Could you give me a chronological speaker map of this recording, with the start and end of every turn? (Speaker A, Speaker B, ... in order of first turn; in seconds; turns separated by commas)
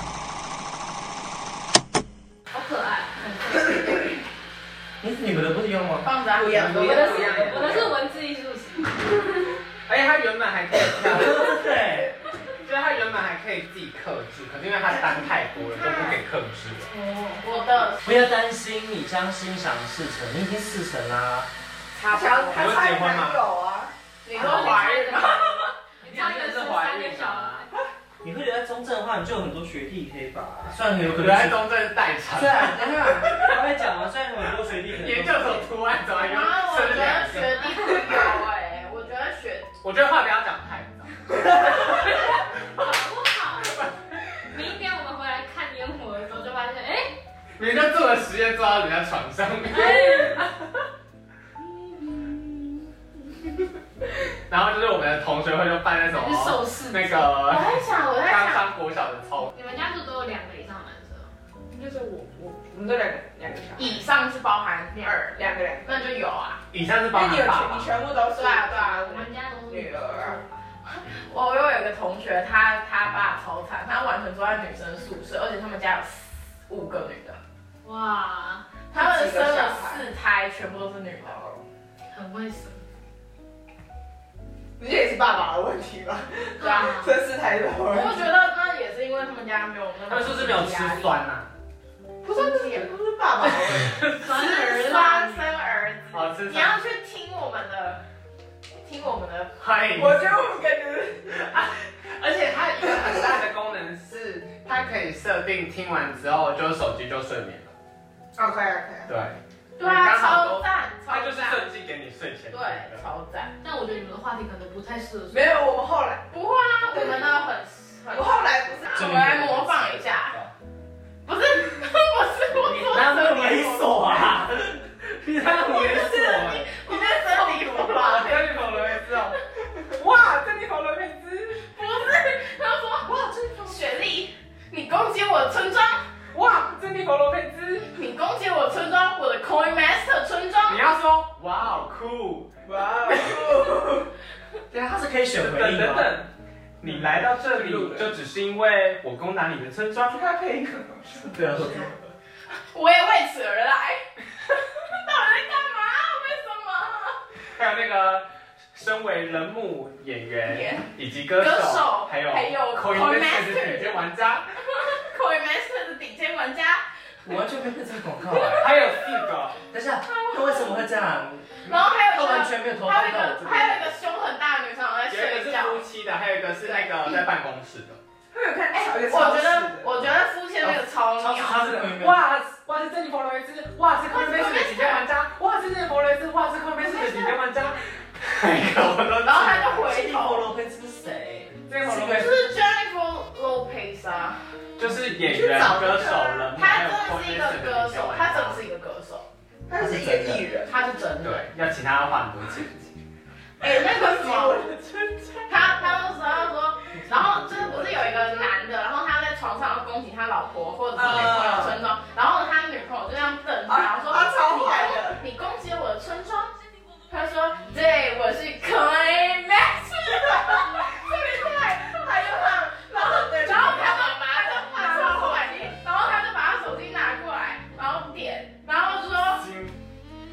Speaker A: 2.5-4.0, Speaker B: 5.0-6.2, Speaker C: 6.0-7.2, Speaker D: 6.3-8.0, Speaker E: 6.5-8.0, Speaker A: 6.7-9.2, Speaker E: 9.9-11.5, Speaker B: 11.0-12.1, Speaker E: 12.6-16.9, Speaker C: 15.8-16.2, Speaker A: 16.9-17.5, Speaker C: 17.4-18.0, Speaker B: 18.0-21.5, Speaker C: 21.9-22.8, Speaker D: 22.1-23.9, Speaker E: 22.5-23.4, Speaker C: 24.2-25.7, Speaker A: 24.3-27.7, Speaker E: 26.0-27.6, Speaker B: 28.2-31.7, Speaker E: 31.1-33.5, Speaker B: 32.3-35.7, Speaker E: 35.0-37.6, Speaker C: 36.2-39.7, Speaker E: 39.8-41.2, Speaker A: 41.8-43.8, Speaker A: 44.4-47.1, Speaker E: 47.6-50.5, Speaker A: 49.7-50.5, Speaker A: 52.1-52.4, Speaker E: 54.5-59.5, Speaker A: 56.1-57.5, Speaker C: 57.4-58.6, Speaker A: 59.5-61.3, Speaker D: 61.7-64.1, Speaker C: 63.8-66.6, Speaker D: 65.0-66.1, Speaker E: 66.7-68.1, Speaker D: 67.1-70.4, Speaker C: 68.3-69.1, Speaker A: 69.0-70.5, Speaker C: 70.8-77.4, Speaker A: 77.8-78.7, Speaker C: 78.9-81.4, Speaker D: 78.9-80.0, Speaker D: 81.2-81.6, Speaker A: 82.1-82.8, Speaker D: 84.8-88.3, Speaker A: 86.6-87.1, Speaker C: 87.9-91.2, Speaker E: 90.1-91.5, Speaker D: 92.2-94.1, Speaker C: 92.3-92.9, Speaker A: 93.9-95.5, Speaker C: 94.2-98.0, Speaker E: 96.1-96.8, Speaker C: 98.8-99.5, Speaker E: 99.6-100.3, Speaker D: 99.9-101.7, Speaker E: 101.3-107.7, Speaker D: 108.3-109.2, Speaker E: 109.1-113.1, Speaker C: 109.8-111.7, Speaker C: 112.5-113.5, Speaker A: 113.6-115.6, Speaker D: 115.3-116.2, Speaker C: 116.3-120.3, Speaker D: 116.9-117.3, Speaker D: 118.1-119.0, Speaker B: 118.9-120.0, Speaker E: 120.2-120.5, Speaker C: 121.2-124.3, Speaker B: 122.6-126.8, Speaker C: 125.4-128.7, Speaker E: 127.3-129.4, Speaker E: 130.0-131.6, Speaker C: 131.7-136.0, Speaker E: 136.3-137.9, Speaker C: 137.9-140.8, Speaker E: 140.7-142.5, Speaker D: 142.6-144.1, Speaker B: 144.7-146.2, Speaker E: 145.3-150.2, Speaker D: 146.8-148.1, Speaker D: 150.1-152.0, Speaker B: 151.3-151.9, Speaker C: 152.7-154.0, Speaker C: 154.7-157.2, Speaker E: 157.5-164.4, Speaker C: 160.4-164.0, Speaker C: 164.7-166.8, Speaker B: 167.2-168.8, Speaker E: 168.6-169.6, Speaker B: 169.7-173.9, Speaker C: 170.0-171.0, Speaker C: 171.6-175.8, Speaker E: 175.1-178.0, Speaker C: 176.7-177.1, Speaker D: 178.3-180.1, Speaker C: 178.7-181.9, Speaker B: 180.6-182.2, Speaker E: 181.8-189.8, Speaker C: 184.1-185.0, Speaker C: 186.8-187.4, Speaker C: 189.2-190.5, Speaker B: 189.7-192.5, Speaker E: 191.7-192.4, Speaker C: 192.0-194.4, Speaker E: 194.8-198.6, Speaker D: 195.2-196.5, Speaker C: 196.5-199.3, Speaker D: 199.7-200.9, Speaker B: 199.7-200.4, Speaker C: 200.7-201.5, Speaker E: 201.2-202.9, Speaker C: 203.6-204.6, Speaker D: 203.6-206.2, Speaker C: 205.5-216.5, Speaker B: 206.9-208.1, Speaker D: 210.9-211.7, Speaker D: 213.7-215.2, Speaker C: 217.1-220.9, Speaker D: 220.7-225.4, Speaker C: 223.0-229.4, Speaker E: 229.3-229.7